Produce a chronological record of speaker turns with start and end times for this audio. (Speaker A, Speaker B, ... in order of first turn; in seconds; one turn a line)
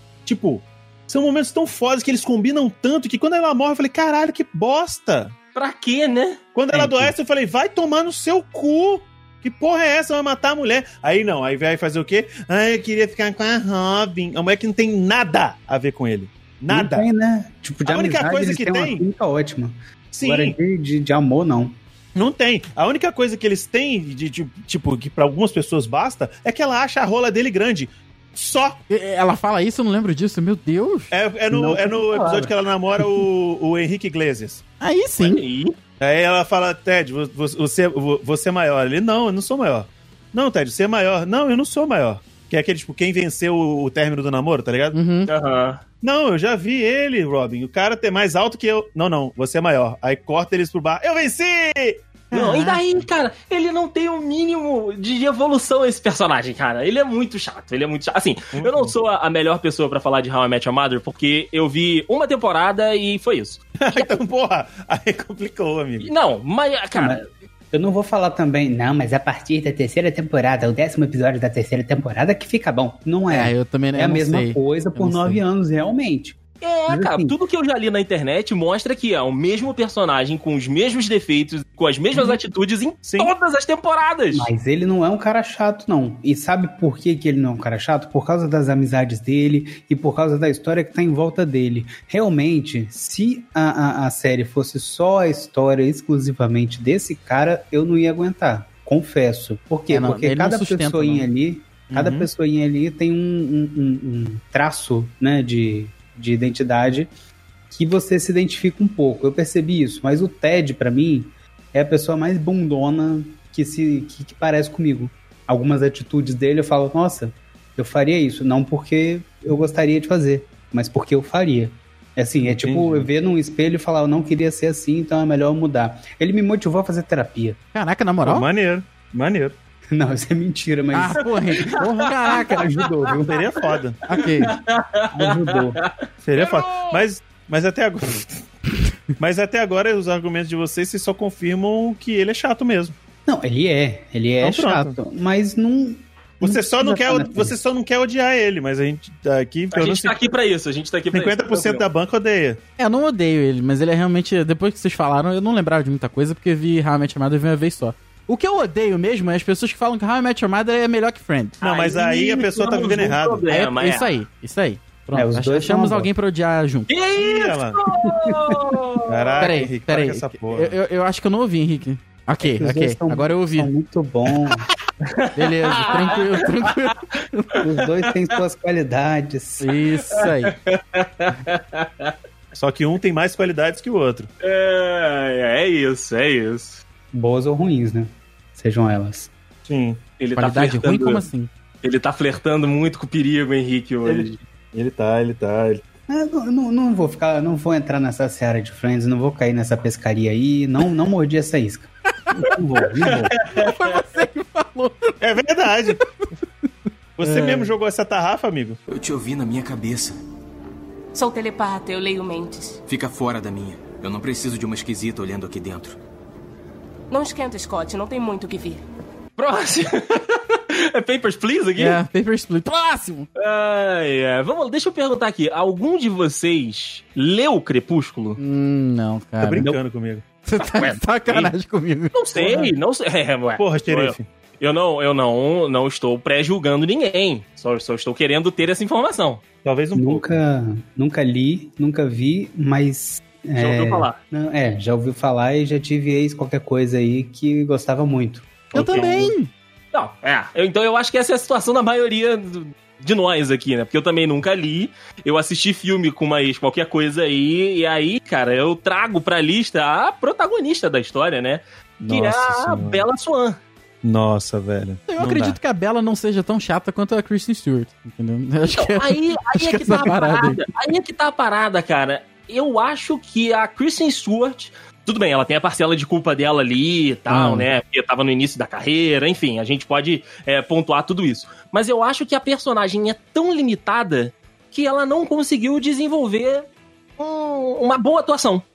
Speaker A: 0.2-5.3
Speaker B: 5.5-7.0
Speaker A: 6.5-17.1
Speaker C: 16.7-21.8
Speaker A: 17.9-19.0
Speaker A: 20.1-20.6
Speaker A: 22.1-28.8
Speaker D: 28.9-31.1
Speaker A: 31.1-34.6
Speaker C: 31.5-33.2
Speaker D: 34.8-35.4
Speaker B: 35.2-35.8
Speaker A: 36.0-45.0
Speaker D: 44.9-45.3
Speaker B: 45.3-45.8
Speaker A: 46.0-52.2
Speaker B: 52.3-64.1
Speaker D: 52.3-52.8
Speaker A: 58.5-58.9
Speaker A: 63.8-66.1
Speaker B: 66.0-67.2
Speaker C: 67.0-67.2
Speaker C: 67.7-76.4
Speaker D: 73.3-75.4
Speaker B: 76.6-84.5
Speaker C: 76.9-77.3
Speaker C: 82.1-82.4
Speaker A: 83.0-83.3
Speaker C: 84.3-107.1
Speaker D: 99.9-101.3
Speaker A: 101.9-102.3
Speaker C: 107.7-127.6
Speaker A: 122.6-123.1
Speaker D: 127.7-128.5
Speaker A: 128.2-129.6
Speaker C: 129.9-133.5
Speaker D: 130.9-132.6
Speaker B: 131.6-133.1
Speaker A: 133.2-134.0
Speaker D: 134.1-134.5
Speaker B: 134.2-137.0
Speaker C: 135.1-135.8
Speaker A: 136.2-138.3
Speaker A: 139.2-142.9
Speaker C: 143.2-147.7
Speaker A: 144.4-144.9
Speaker A: 146.4-150.2
Speaker B: 149.7-151.8
Speaker A: 151.1-152.6
Speaker D: 152.8-161.6
Speaker B: 161.6-164.1
Speaker A: 161.6-163.4
Speaker D: 163.5-166.9
Speaker C: 165.1-166.1
Speaker B: 166.9-169.6
Speaker A: 167.2-167.8
Speaker C: 168.0-168.6
Speaker A: 169.1-170.7
Speaker D: 169.4-173.7
Speaker C: 172.4-174.7
Speaker B: 175.1-176.9
Speaker D: 175.3-177.6
Speaker C: 177.6-180.0
Speaker B: 177.6-178.4
Speaker D: 179.6-180.5
Speaker B: 180.1-182.1
Speaker A: 182.5-184.3
Speaker B: 184.4-186.8
Speaker C: 187.1-189.3
Speaker A: 189.7-190.0
Speaker B: 190.2-191.2
Speaker D: 190.4-191.5
Speaker B: 191.8-194.4
Speaker A: 194.0-195.8
Speaker C: 196.1-203.4
Speaker B: 203.0-203.7
Speaker D: 203.4-205.2
Speaker A: 205.2-206.0
Speaker D: 206.0-206.3
Speaker A: 207.2-208.8
Speaker D: 207.2-207.7
Speaker E: 208.9-210.2
Speaker F: 211.1-212.8
Speaker E: 212.8-216.0
Speaker F: 217.1-218.8
Speaker B: 219.4-222.0
Speaker D: 221.8-223.3
Speaker B: 223.3-228.4
Speaker D: 228.4-229.7
Speaker A: 229.4-230.2
Speaker D: 230.4-232.1
Speaker B: 230.7-231.5
Speaker B: 232.1-239.4
Speaker A: 232.3-232.7
Speaker A: 233.6-234.2
Speaker A: 239.6-240.3
Speaker C: 239.9-249.0
Speaker B: 243.6-244.2
Speaker B: 248.7-249.3
Speaker D: 248.7-249.5
Speaker B: 249.9-263.6
Speaker A: 262.0-263.0
Speaker A: 264.0-265.6
Speaker D: 265.1-270.6
Speaker B: 268.7-286.7
Speaker D: 277.3-277.7
Speaker B: 287.2-288.6